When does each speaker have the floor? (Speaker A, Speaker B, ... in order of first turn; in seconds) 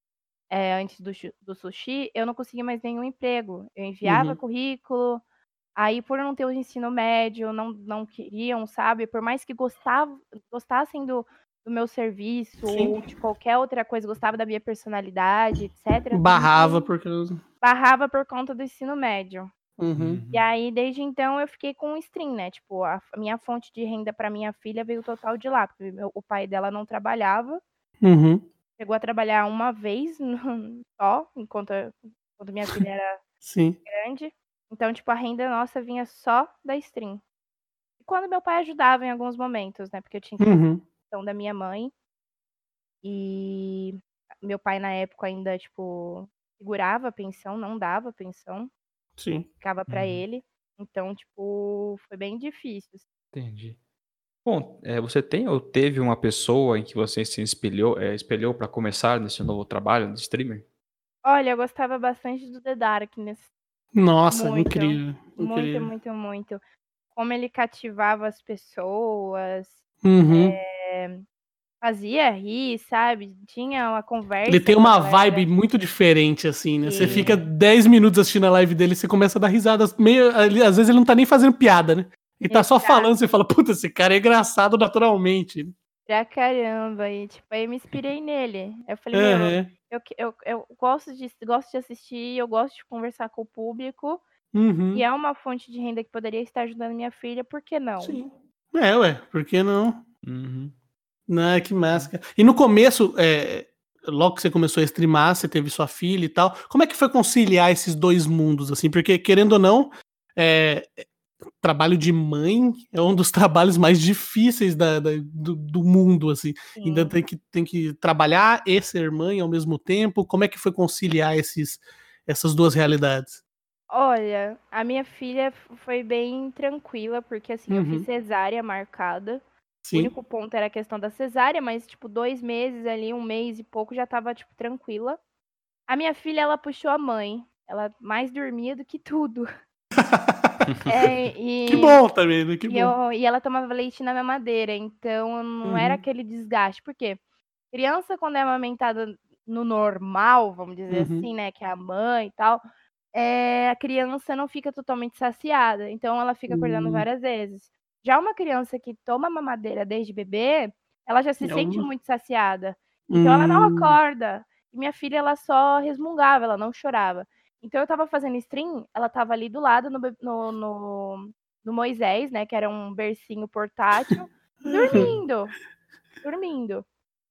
Speaker A: 0.5-5.2, 5.8-16.9, 17.6-19.5, 20.3-27.6, 28.8-33.2, 33.9-37.2, 38.0-41.9, 43.0-48.7, 49.6-53.0, 61.2-63.5, 64.3-66.6, 67.1-71.2, 71.8-75.5, 76.8-77.3, 82.5-83.1, 86.1-94.2, 94.9-98.2, 116.8-117.2, 123.9-129.4, 129.9-135.2, 135.9-139.5, 140.8-142.0, 142.7-147.2, 147.7-152.6, 153.1-175.5, 176.2-176.8
Speaker B: 4.0-4.4, 12.7-13.0, 16.1-17.4, 19.8-20.2, 28.0-28.4, 33.4-33.8, 40.4-40.8, 49.2-49.5, 63.9-65.9, 70.0-70.6, 74.5-85.7, 89.1-89.7, 94.5-95.0, 98.0-100.0, 101.3-111.1, 111.6-123.4, 127.7-128.1, 129.8-130.1, 140.0-140.6, 141.7-142.9, 145.6-146.0, 150.9-151.3, 156.5-157.1, 161.4-161.9, 163.1-164.0, 174.7-175.1
Speaker C: 19.9-20.5, 49.9-50.2, 53.3-53.8, 54.4-60.6, 77.0-77.4, 100.2-100.7, 174.9-175.2